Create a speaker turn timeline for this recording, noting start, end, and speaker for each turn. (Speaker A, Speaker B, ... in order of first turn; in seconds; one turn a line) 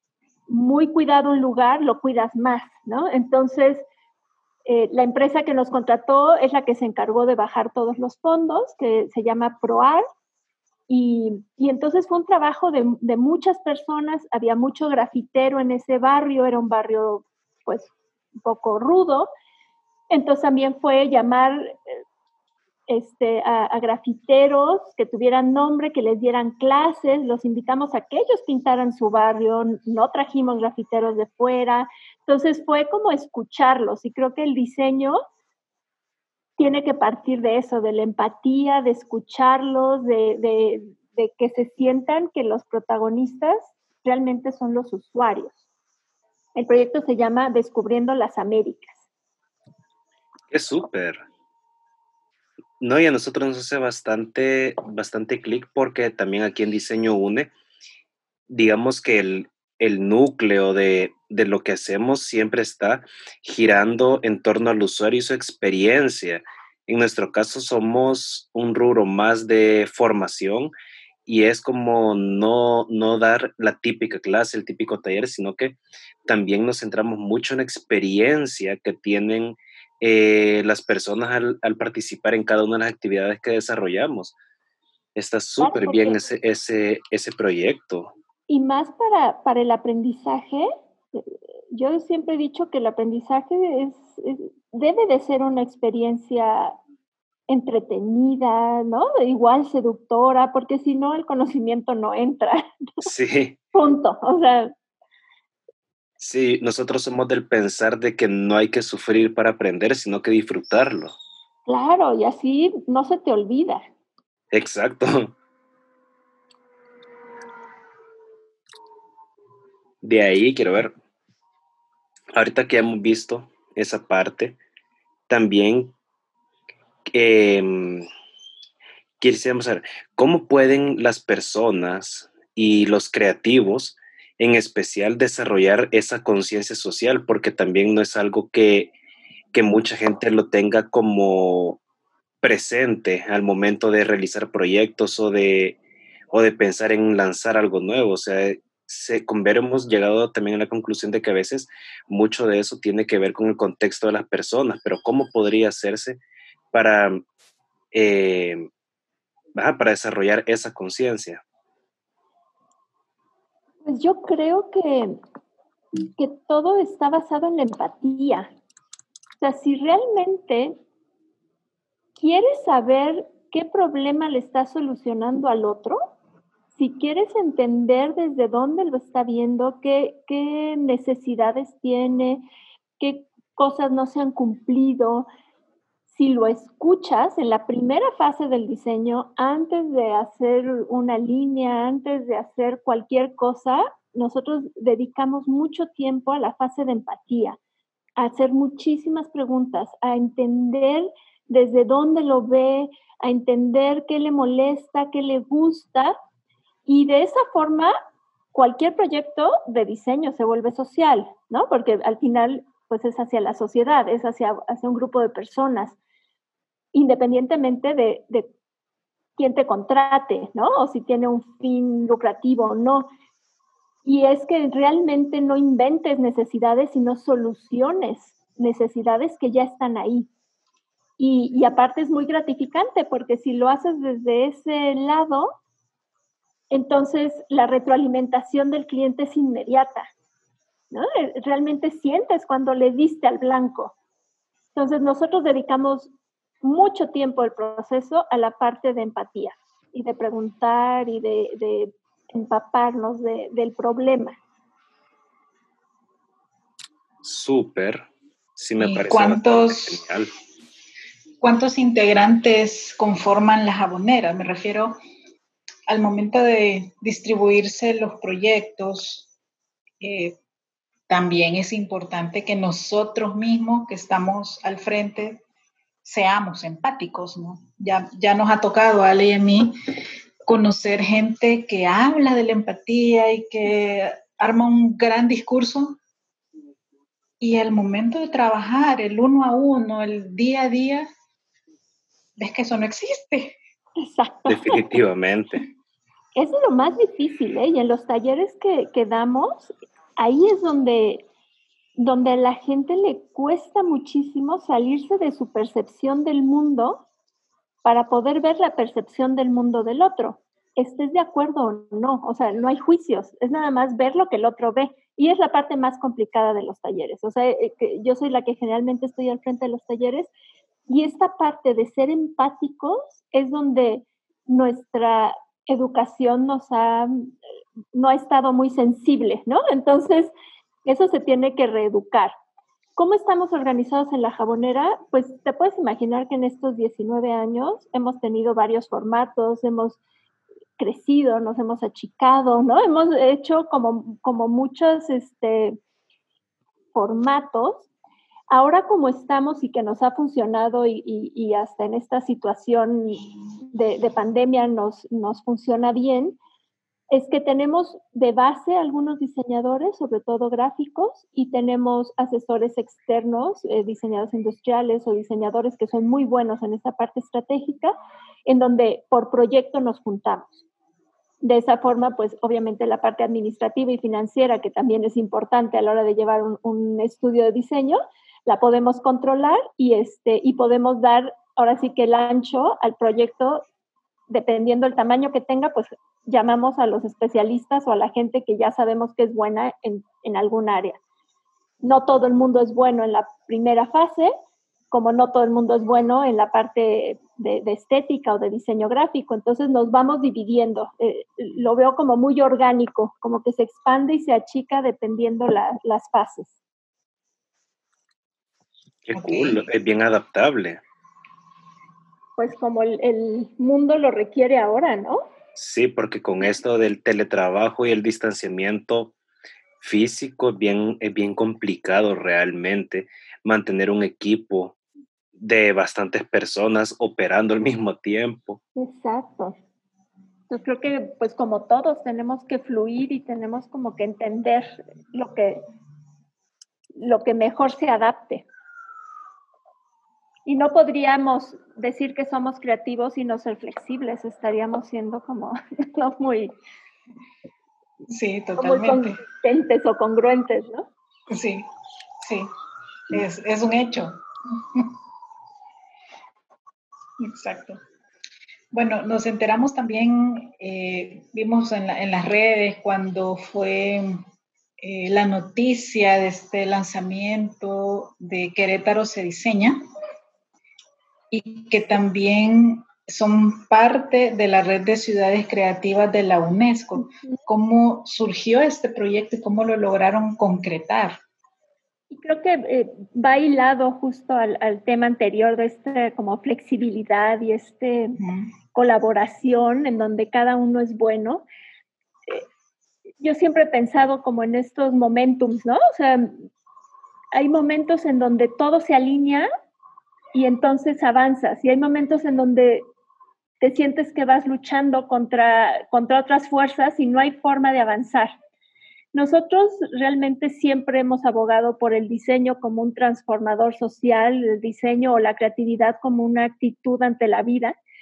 Speaker A: 0.5-3.8
Speaker A: 4.7-10.0
Speaker A: 10.9-19.3
Speaker A: 20.1-22.0
Speaker A: 22.9-35.2
Speaker A: 36.6-45.6
Speaker A: 46.5-49.0
Speaker B: 50.5-51.2
Speaker B: 52.8-57.5
Speaker B: 58.5-70.7
Speaker B: 71.2-84.3
Speaker B: 85.2-88.1
Speaker A: 85.6-86.2
Speaker A: 88.5-96.7
Speaker A: 97.5-103.1
Speaker B: 103.0-103.6
Speaker A: 103.7-104.7
Speaker B: 106.2-111.1
Speaker A: 111.7-113.8
Speaker B: 114.5-115.3
Speaker B: 120.0-120.9
Speaker B: 122.3-124.6
Speaker B: 125.3-125.9
Speaker B: 127.1-128.1
Speaker B: 129.2-138.9
Speaker B: 139.5-141.8
Speaker B: 142.4-145.8
Speaker B: 146.3-156.2
Speaker B: 156.7-157.2
Speaker B: 157.9-158.7
Speaker B: 159.5-161.4
Speaker A: 163.8-165.2
Speaker A: 166.2-168.5
Speaker A: 169.4-170.8
Speaker A: 172.2-176.0
Speaker A: 176.7-182.4
Speaker A: 183.0-185.3
Speaker A: 186.1-197.6
Speaker A: 198.2-206.1
Speaker A: 206.8-207.9
Speaker A: 208.5-216.0
Speaker A: 216.9-218.5
Speaker A: 219.4-223.1
Speaker A: 224.0-230.3
Speaker A: 231.2-235.5
Speaker A: 236.7-240.1
Speaker A: 240.9-243.9
Speaker A: 244.7-246.1
Speaker A: 246.6-254.4
Speaker B: 257.2-260.3
Speaker C: 258.8-260.0
Speaker C: 261.4-264.9
Speaker C: 265.9-269.3
Speaker C: 270.0-270.4
Speaker C: 271.1-275.4
Speaker C: 276.0-279.7
Speaker C: 280.5-286.0
Speaker C: 287.4-291.1
Speaker C: 292.4-293.5
Speaker A: 294.0-294.9
Speaker B: 294.5-295.6
Speaker A: 296.4-301.2
Speaker A: 302.0-307.0
Speaker A: 307.8-320.3
Speaker A: 320.9-327.3
Speaker A: 327.9-330.3
Speaker A: 330.8-332.3
Speaker A: 332.9-340.0
Speaker A: 340.8-345.8
Speaker A: 346.9-347.9
Speaker A: 348.5-356.4
Speaker A: 357.1-367.9
Speaker A: 368.4-370.6
Speaker A: 371.4-383.6
Speaker A: 384.3-391.0
Speaker A: 391.8-394.3
Speaker A: 394.9-406.6
Speaker B: 409.0-410.8
Speaker C: 409.1-409.6
Speaker A: 412.4-415.2
Speaker B: 415.5-419.1
Speaker B: 419.8-424.8
Speaker B: 425.3-428.6
Speaker A: 428.8-429.6
Speaker A: 430.5-435.6
Speaker A: 437.0-438.4
Speaker A: 440.4-446.5
Speaker C: 448.1-449.2
Speaker A: 448.6-450.9
Speaker C: 451.3-451.7
Speaker C: 452.2-452.5
Speaker C: 453.1-454.9
Speaker C: 457.2-457.8
Speaker C: 458.7-464.2
Speaker C: 464.8-469.8
Speaker C: 471.3-481.2
Speaker A: 482.1-488.2
Speaker C: 488.2-488.5
Speaker A: 488.7-491.4
Speaker A: 493.2-496.4
Speaker A: 497.3-499.5
Speaker A: 500.3-502.9
Speaker A: 503.6-508.3
Speaker A: 509.1-517.8